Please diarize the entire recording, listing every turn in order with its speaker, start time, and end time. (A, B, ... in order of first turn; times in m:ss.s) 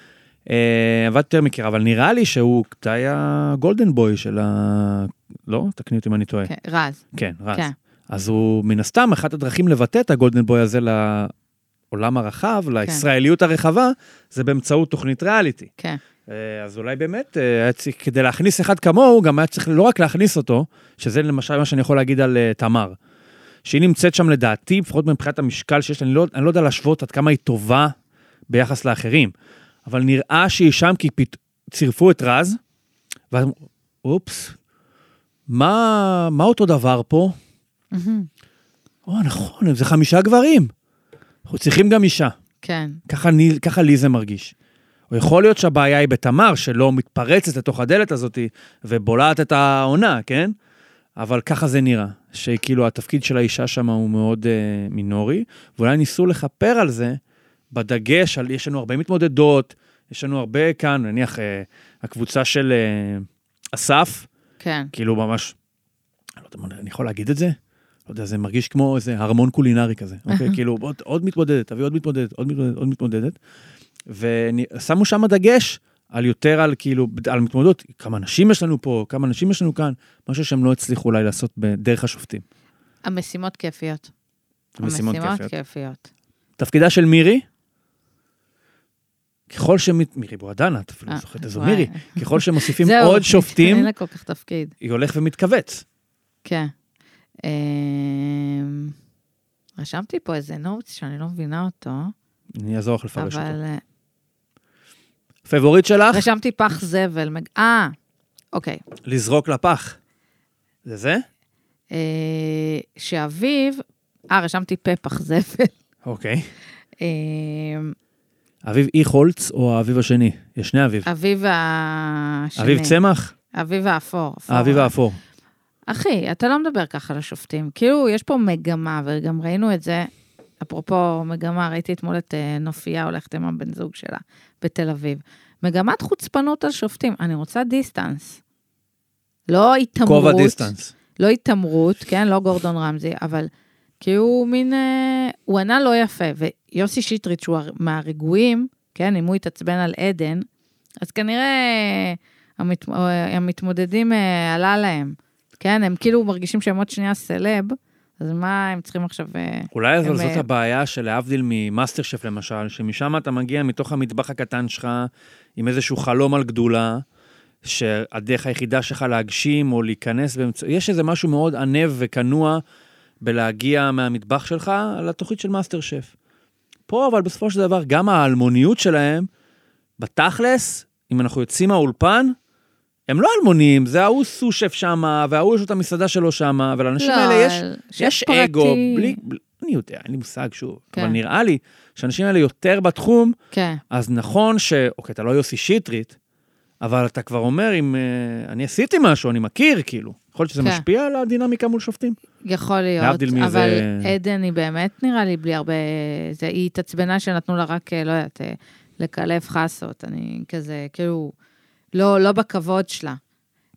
0:00.5-0:06.5 A
0:06.5-0:07.0 B
0:07.1-0:11.3 A
0:11.9-0:15.7 A
0:16.3-0:23.0 A
0:23.6-0:27.9 A
0:28.5-0:29.3 A
0:29.9-0:32.6 A
0:33.3-0:34.6 A
0:35.5-0:37.4 A
0:37.9-0:38.3 B
0:39.1-0:40.7 A
0:41.5-0:42.3 A
0:42.6-0:43.0 B
0:43.1-0:44.5 A
0:45.1-0:50.5 A
0:51.2-0:57.2 A
0:57.7-1:04.3 A
1:04.6-1:04.9 B
1:04.9-1:05.6 A
1:06.4-1:07.6 A
1:08.1-1:13.4 A
1:10.3-1:10.6 B
1:14.1-1:22.4 A
1:23.1-1:24.1 B
1:24.8-1:25.5 A
1:24.8-1:26.1 B
1:26.6-1:27.4 A
1:29.5-1:33.9 A
1:31.1-1:34.7 B
1:34.8-1:35.8 A
1:36.4-1:36.7 B
1:37.4-1:38.9 B
1:39.8-1:42.1 B
1:42.5-1:43.6 A
1:43.2-1:43.8 B
1:45.5-1:46.3 A
1:46.1-1:48.0 B
1:48.5-1:48.8 B
1:49.0-1:50.0 A
1:50.8-1:51.2 A
1:51.9-1:55.7 B
1:56.0-1:56.5 A
1:57.0-1:58.0 B
1:58.6-2:01.1 A
2:01.1-2:03.0 B
2:02.6-2:03.3 A
2:03.5-2:04.9 B
2:04.5-2:05.2 A
2:05.9-2:10.1 B
2:10.6-2:18.4 B
2:19.5-2:30.4 B
2:20.0-2:20.9 A
2:31.0-2:40.4 B
2:39.7-2:47.0 A
2:47.6-2:52.6 A
2:53.2-2:56.1 A
2:56.9-2:59.3 A
3:00.0-3:02.4 A
3:03.1-3:13.4 A
3:07.0-3:09.2 B
3:13.5-3:13.8 B
3:13.9-3:16.2 A
3:16.8-3:22.2 A
3:22.4-3:31.4 B
3:23.0-3:24.1 A
3:31.9-3:33.2 B